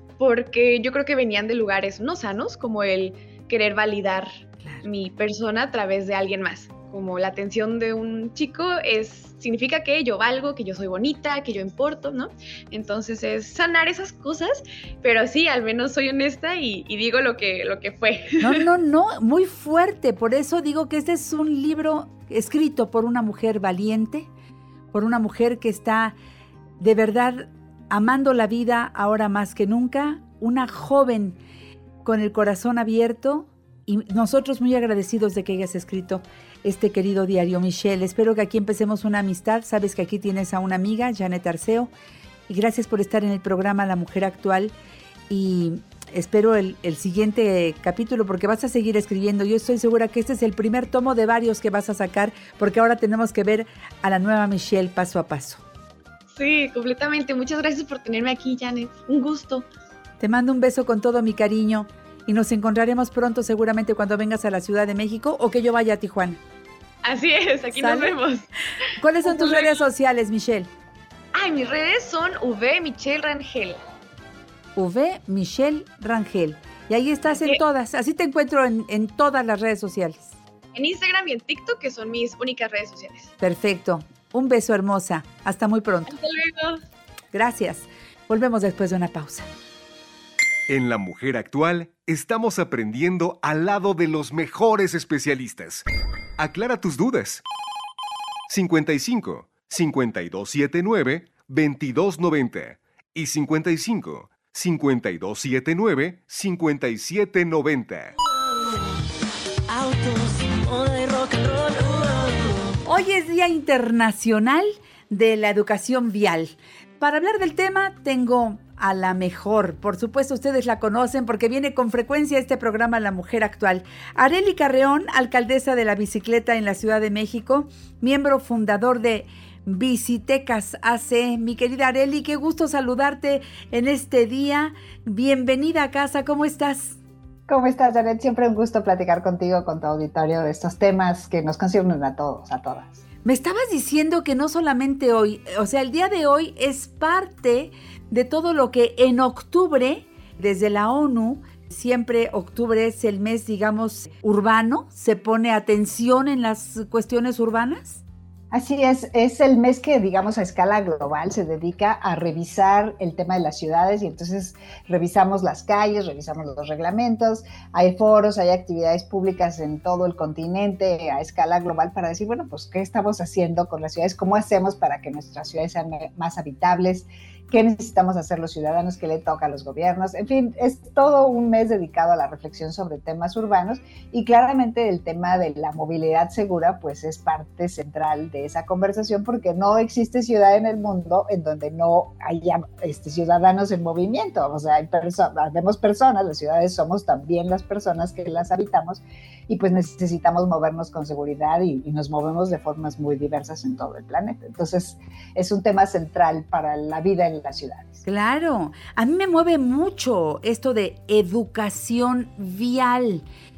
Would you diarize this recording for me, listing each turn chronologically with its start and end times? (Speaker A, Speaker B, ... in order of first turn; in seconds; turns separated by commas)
Speaker A: 0.2-4.3, Speaker A: 4.8-18.6, Speaker B: 18.4-24.3, Speaker B: 24.9-26.1, Speaker B: 26.8-31.4, Speaker B: 32.0-41.9, Speaker B: 42.5-44.7, Speaker B: 45.3-55.6, Speaker A: 56.3-59.6, Speaker B: 60.2-66.4, Speaker A: 67.0-68.5, Speaker B: 67.7-68.2, Speaker B: 69.0-70.7, Speaker A: 69.2-69.7, Speaker A: 71.3-73.8, Speaker B: 74.8-80.3, Speaker A: 77.3-77.6, Speaker A: 80.7-83.3, Speaker B: 83.4-86.1, Speaker A: 86.1-86.8, Speaker B: 87.3-89.5, Speaker C: 90.7-95.8, Speaker C: 96.4-97.4, Speaker C: 98.5-108.1, Speaker D: 109.7-112.7, Speaker B: 112.8-137.0, Speaker E: 137.5-143.0, Speaker B: 143.2-158.0, Speaker E: 158.5-208.0, Speaker B: 208.0-213.2